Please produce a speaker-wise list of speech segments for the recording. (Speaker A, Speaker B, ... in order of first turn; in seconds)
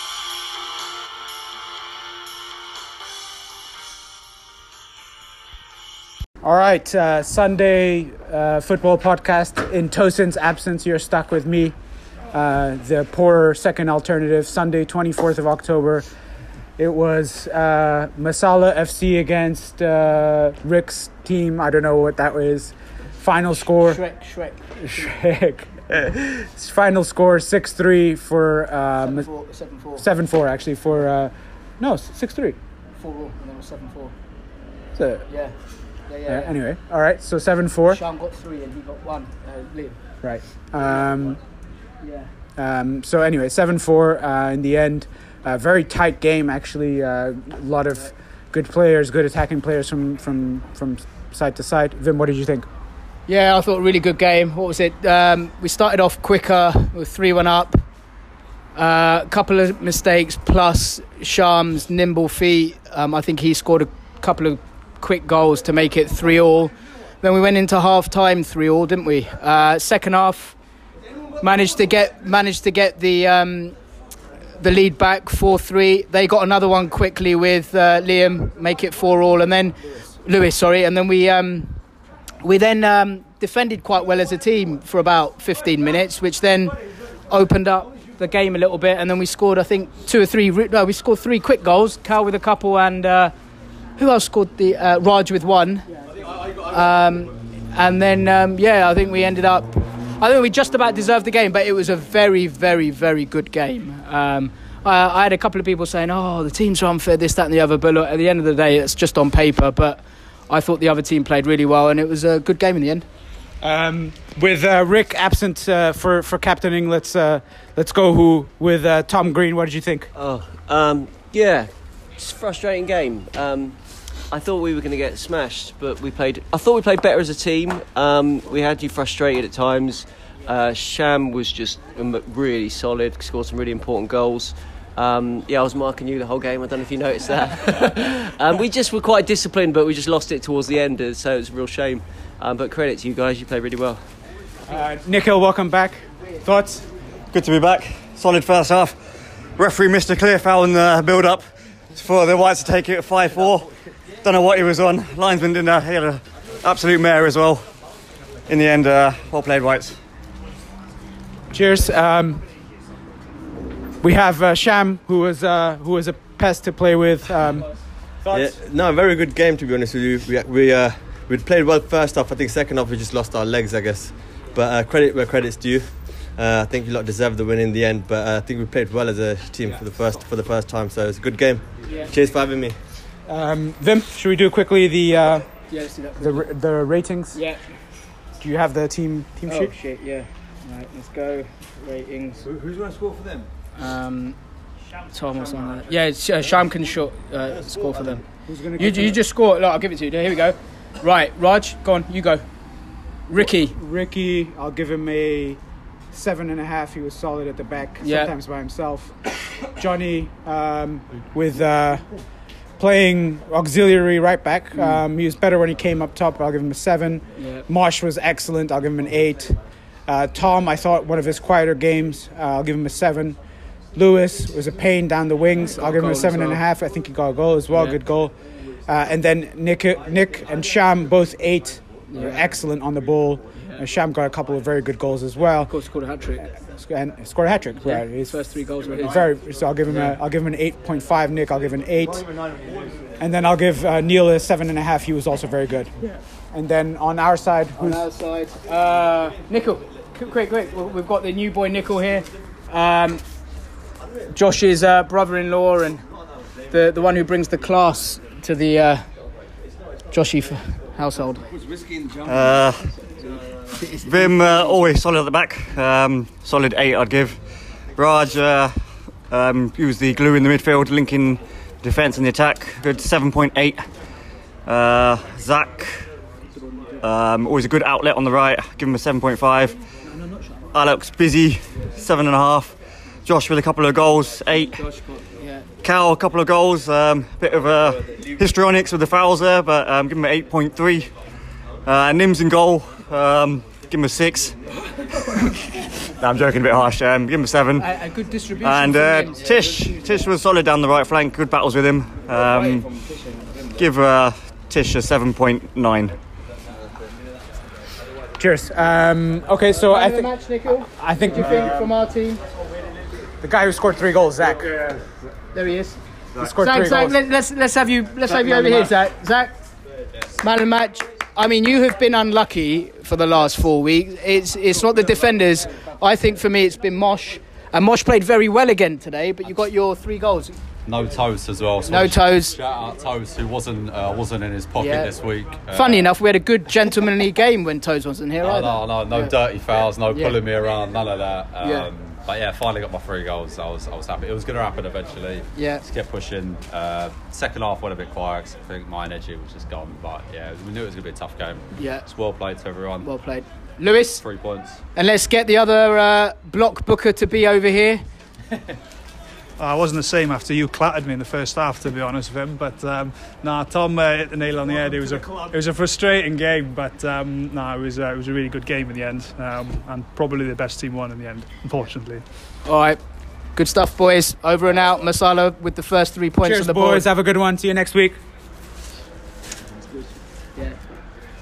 Speaker A: 6.4-11.8, 12.3-16.1, 16.8-24.0, 24.8-29.3, 30.0-32.6, 35.0-35.2, 36.3-38.0, 40.2-41.4, 42.6-52.7, 113.6-120.1, 144.7-146.9, 161.5-162.4, 164.0-168.5, 183.3-185.5, 186.2-187.4, 188.4-189.7, 198.5-199.2, 203.4-205.6, 206.1-212.1, 212.8-223.4, 223.9-235.7, 236.8-238.4, 239.0-242.2, 243.2-245.9, 246.5-248.1, 308.4-311.7, 313.4-314.7, 316.4-317.2, 318.4-318.9, 376.4-378.2
Speaker B: 23.7-25.1, 29.0-30.1, 33.0-34.1, 35.3-35.5, 36.1-36.5, 37.9-40.0, 42.0-42.3, 53.3-57.8, 58.7-70.6, 71.4-73.8, 74.6-81.8, 82.4-86.8, 87.3-93.3, 94.0-95.8, 96.5-113.1, 181.8-182.1, 185.7-186.4, 187.3-187.6, 189.5-192.4, 193.8-194.4, 195.1-202.4, 203.3-203.7, 208.0-208.3, 214.7-215.0, 217.4-217.6, 225.8-226.6, 227.7-228.0, 232.1-232.5, 235.7-236.5, 237.8-239.2, 239.8-240.2, 247.8-253.2, 254.3-256.0, 256.7-259.1, 260.1-261.4, 263.7-264.7, 285.4-285.6, 297.8-299.4, 309.7-312.4, 315.5-319.6, 320.4-330.6, 331.9-332.6, 334.8-335.1, 335.7-339.4, 340.1-340.4, 341.6-341.9, 345.6-345.8, 351.8-352.1, 353.0-354.2, 354.9-358.0, 372.6-373.0, 373.5-377.1
Speaker C: 120.1-144.1
Speaker D: 147.3-153.7, 154.2-157.7, 158.5-160.0, 262.2-263.0, 264.0-273.8, 274.7-276.1, 277.0-279.8, 280.7-284.9, 285.8-291.1, 291.9-294.6, 296.2-297.9, 298.6-302.9, 303.7-306.2
Speaker E: 168.3-182.8
Speaker F: 330.9-336.1, 338.4-353.1, 354.1-354.8
Speaker G: 359.6-372.5